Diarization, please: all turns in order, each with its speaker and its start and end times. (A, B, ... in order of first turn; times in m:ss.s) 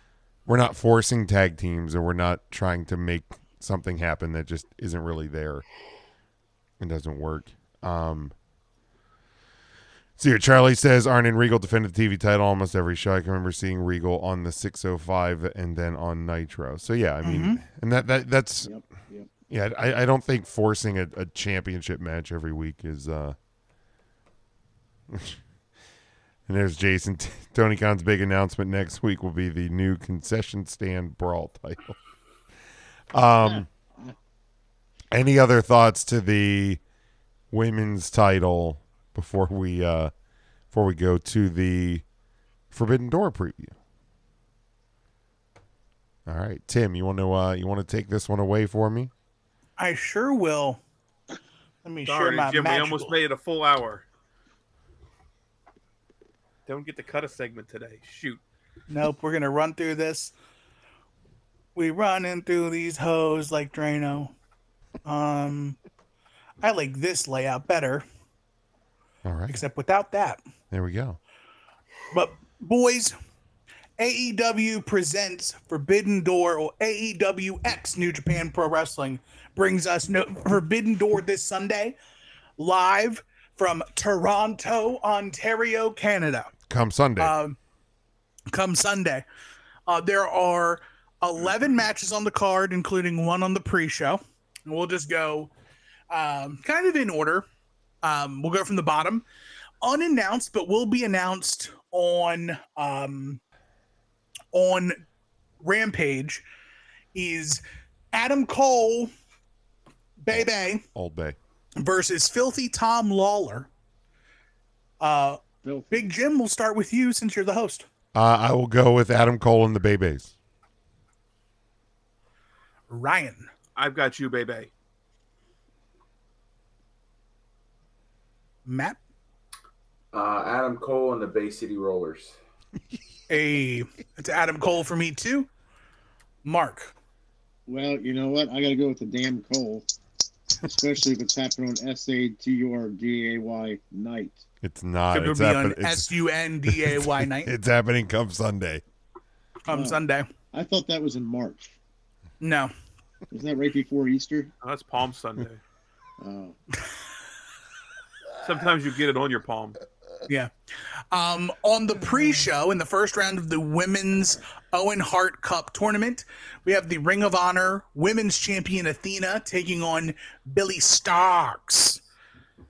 0:00.5-0:05.6 A
0:06.8-0:08.3 A
0:10.2-0:18.7 A
0:17.2-0:17.6 B
0:18.6-0:19.3 C
0:19.5-0:23.4 A
0:25.1-0:25.4 A
0:26.5-0:32.0 A
0:33.1-0:33.7 A
0:33.4-0:34.1 C
0:35.1-0:36.8 A
0:37.5-0:40.1 A
0:40.7-0:42.0 A
0:42.7-0:43.7 A
0:46.3-0:49.1 A
0:49.8-0:50.8 B
0:51.8-0:53.2 B
0:52.0-0:54.0 D
0:56.7-0:58.4 D
0:58.9-1:00.3 B
1:01.8-1:04.3 B
1:05.0-1:05.8 B
1:06.6-1:08.0 B
1:09.2-1:09.6 A
1:09.5-1:10.4 B
1:10.7-1:11.2 A
1:12.1-1:13.2 B
1:14.0-1:22.0 B
1:22.6-1:26.5 B
1:26.7-1:27.4 A
1:27.2-1:27.6 B
1:28.5-1:29.2 B
1:29.9-1:35.5 B
1:36.1-1:37.5 B
1:38.0-1:39.2 B
1:39.8-1:43.4 B
1:44.5-1:45.0 B
1:45.6-1:46.4 B
1:47.1-1:49.1 B
1:50.2-1:50.8 B
1:50.3-1:51.4 A
1:51.8-1:53.7 B
1:55.0-1:55.4 B
1:55.6-1:56.1 C
1:55.9-1:57.9 B
1:58.1-2:00.3 A
2:02.9-2:03.5 B
2:03.8-2:04.7 D
2:08.7-2:09.0 B
2:10.1-2:12.4 E
2:13.3-2:15.5 B
2:16.4-2:16.9 B
2:17.7-2:19.9 C
2:20.6-2:24.4 C
2:24.6-2:26.1 A
2:25.1-2:27.5 B
2:26.7-2:28.8 A
2:29.7-2:30.3 B
2:29.7-2:31.8 C
2:32.4-2:32.7 B
2:33.3-2:34.5 C
2:34.6-2:35.6 D
2:36.2-2:36.6 C
2:38.4-2:39.8 D
2:41.1-2:52.0 B